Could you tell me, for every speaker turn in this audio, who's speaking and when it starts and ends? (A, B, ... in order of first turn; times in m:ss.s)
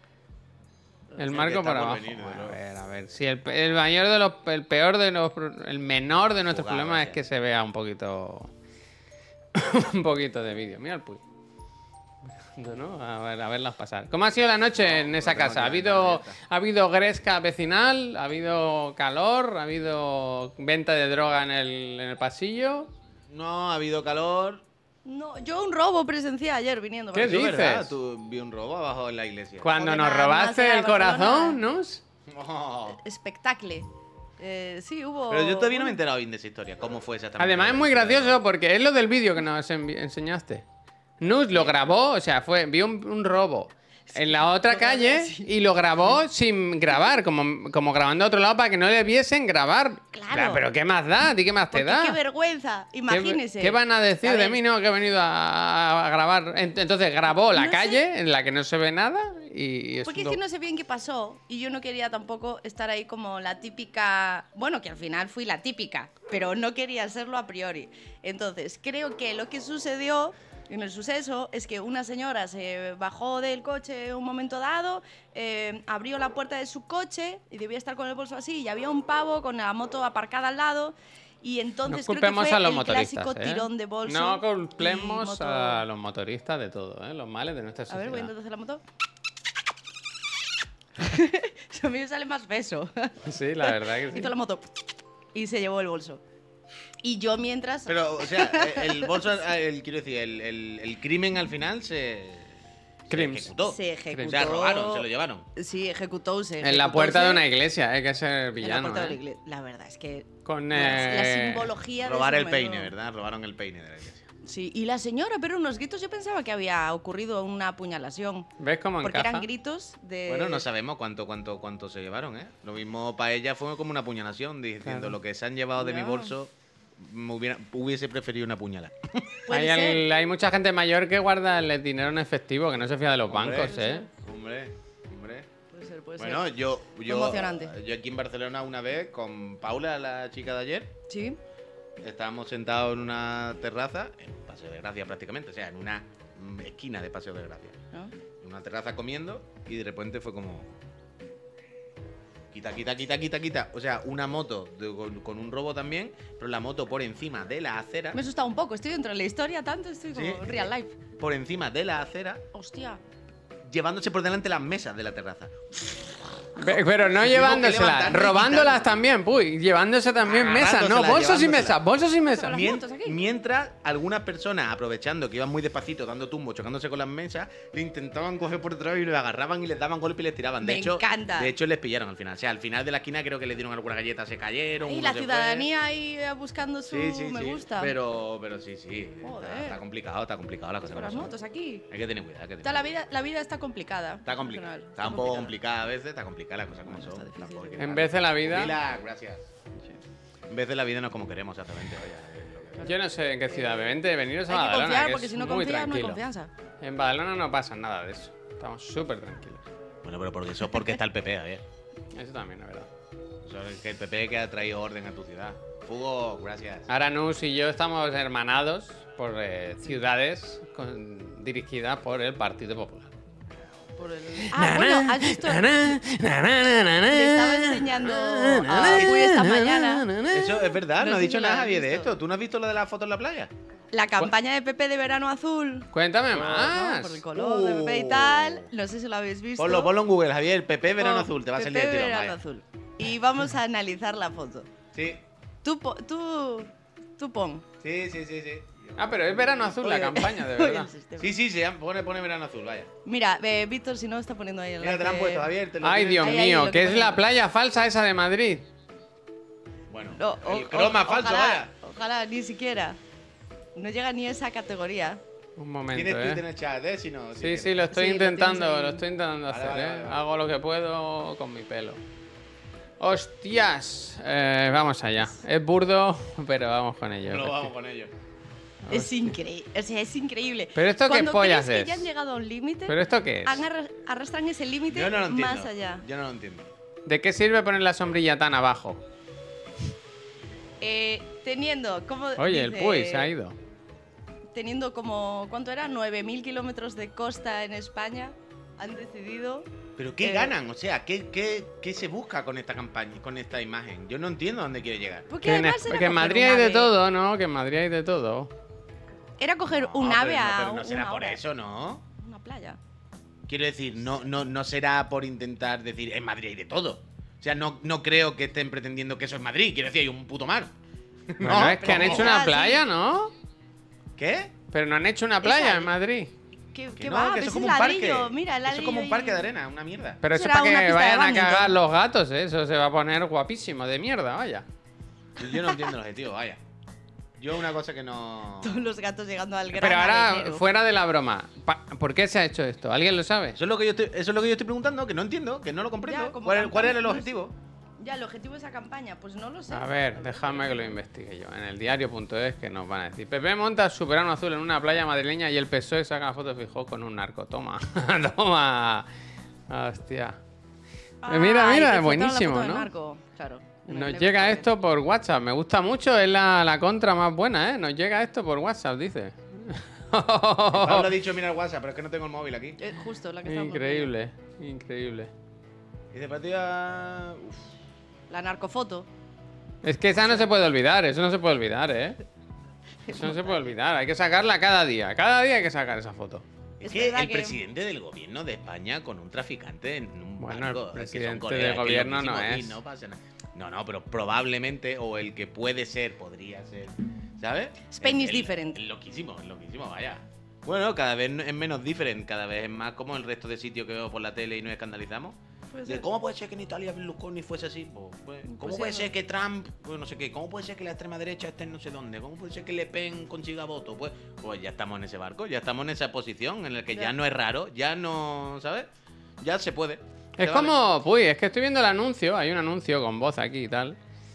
0:01.2-0:08.5 A
0:01.2-0:02.6 B
0:06.5-0:07.2 B
0:09.5-0:11.2 A
0:12.4-0:22.9 A
0:14.7-0:16.4 B
0:23.3-0:24.6 B
0:25.0-0:27.4 C
0:27.1-0:27.9 A
0:27.1-0:29.7 B
0:29.6-0:32.0 A
0:29.8-0:31.6 C
0:32.3-0:33.0 B
0:32.9-0:33.9 C
0:34.4-0:36.0 C
0:35.3-0:38.4 B
0:37.4-0:40.6 A
0:41.2-0:52.2 A
0:44.1-0:46.2 C
0:50.1-0:50.6 C
0:51.7-0:54.6 C
0:53.1-1:00.4 A
0:57.4-0:58.0 C
1:00.0-1:25.8 C
1:21.9-1:28.3 A
1:27.9-1:28.8 C
1:31.0-1:34.7 C
1:33.2-1:34.3 A
1:35.3-1:36.2 C
1:37.0-1:39.3 C
1:37.8-1:45.5 B
1:43.1-1:43.5 A
1:43.6-1:47.4 C
1:44.1-1:44.4 A
1:46.6-1:49.2 A
1:48.6-1:52.9 C
1:50.4-1:51.7 A
1:52.0-1:54.2 B
1:54.4-1:58.5 C
1:58.6-1:59.5 A
1:59.0-2:00.6 C
2:00.3-2:09.4 B
2:04.8-2:05.2 A
2:05.8-2:06.3 C
2:09.5-2:10.0 C
2:09.5-2:14.1 A
2:13.3-2:15.5 B
2:15.7-2:17.7 C
2:16.2-2:20.9 B
2:21.1-2:21.4 C
2:22.0-2:27.8 B
2:28.4-2:30.7 B
2:32.5-2:38.2 B
2:38.1-2:41.0 C
2:40.1-2:42.4 B
2:42.5-2:43.0 C
2:43.6-2:46.6 B
2:46.6-2:52.7 A
2:47.1-2:48.9 B
2:50.2-2:51.8 B
2:52.3-2:53.2 C
2:52.5-3:05.7 B
3:00.6-3:01.5 C
3:04.8-3:08.0 C
3:06.9-3:11.3 B
3:09.2-3:09.8 C
3:10.9-3:11.9 C
3:11.9-3:12.8 B
3:12.6-3:15.5 C
3:14.2-3:19.4 B
3:16.8-3:18.0 C
3:17.8-3:18.8 A
3:20.5-3:22.9 B
3:22.8-3:24.0 C
3:22.8-3:26.2 A
3:24.5-3:26.5 C
3:26.8-3:29.6 A
3:30.0-3:31.6 B
3:32.1-3:32.9 A
3:33.4-3:36.9 B
3:36.9-3:43.1 A
3:43.6-3:43.9 B
3:44.0-3:45.9 C
3:44.4-3:50.7 A
3:47.0-3:50.1 C
3:48.8-3:49.2 B
3:50.3-3:53.5 B
3:50.8-3:52.1 C
3:53.9-3:59.9 C
3:55.9-3:57.2 A
3:57.3-3:58.7 B
3:59.6-4:02.4 B
4:01.0-4:04.7 C
4:04.9-4:05.2 B
4:05.6-4:07.6 C
4:07.8-4:10.1 B
4:09.0-4:10.9 A
4:09.8-4:11.3 C
4:11.2-4:12.9 B
4:13.0-4:15.5 C
4:14.8-4:16.6 B
4:15.8-4:18.7 A
4:16.2-4:17.2 C
4:19.9-4:21.7 B
4:20.2-4:23.0 C
4:23.8-4:25.2 C
4:25.6-4:26.4 A
4:25.9-4:27.9 B
4:27.4-4:32.0 A
4:27.9-4:29.0 C
4:29.5-4:30.2 B
4:33.0-4:37.7 A
4:37.3-4:38.1 B
4:38.8-4:39.3 A
4:38.9-4:46.0 C
4:40.7-4:42.1 A
4:42.9-4:43.6 A
4:44.9-4:46.7 B
4:47.0-4:49.0 A
4:50.8-4:53.3 C
4:52.4-4:53.6 A
4:54.5-5:00.5 C
5:00.0-5:05.3 B
5:05.3-5:06.9 C
5:05.4-5:08.5 A
5:09.4-5:11.4 C
5:09.7-5:12.0 B
5:12.2-5:12.8 C
5:13.5-5:20.7 B
5:21.3-5:22.4 B
5:21.4-5:23.3 A
5:21.5-5:22.8 C
5:24.2-5:24.5 B
5:24.7-5:26.3 A
5:25.4-5:25.9 C
5:26.7-5:29.5 C
5:27.0-5:30.2 B
5:30.2-5:34.7 A
5:30.3-5:31.8 C
5:35.4-5:36.6 B
5:35.4-5:35.8 C
5:37.4-5:38.8 B
5:38.6-5:40.6 C
5:39.7-5:43.6 A
5:43.6-5:47.5 B
5:46.0-5:47.3 C
5:48.0-5:50.9 C
5:49.7-5:59.1 A
5:59.7-6:00.4 A
6:01.2-6:04.7 C
6:01.2-6:02.9 A
6:03.9-6:11.1 A
6:10.7-6:12.8 B
6:12.8-6:14.1 C
6:13.4-6:15.3 A
6:16.1-6:17.7 B
6:18.3-6:19.1 C
6:19.8-6:22.2 A
6:20.2-6:20.5 C
6:23.1-6:23.4 C
6:23.1-6:26.4 A
6:26.8-6:27.6 C
6:26.8-6:58.9 B
6:30.4-6:32.8 A
6:37.9-6:38.8 C
6:45.7-6:46.0 C
6:48.5-6:49.1 C
6:59.4-7:00.7 B
7:00.4-7:04.0 A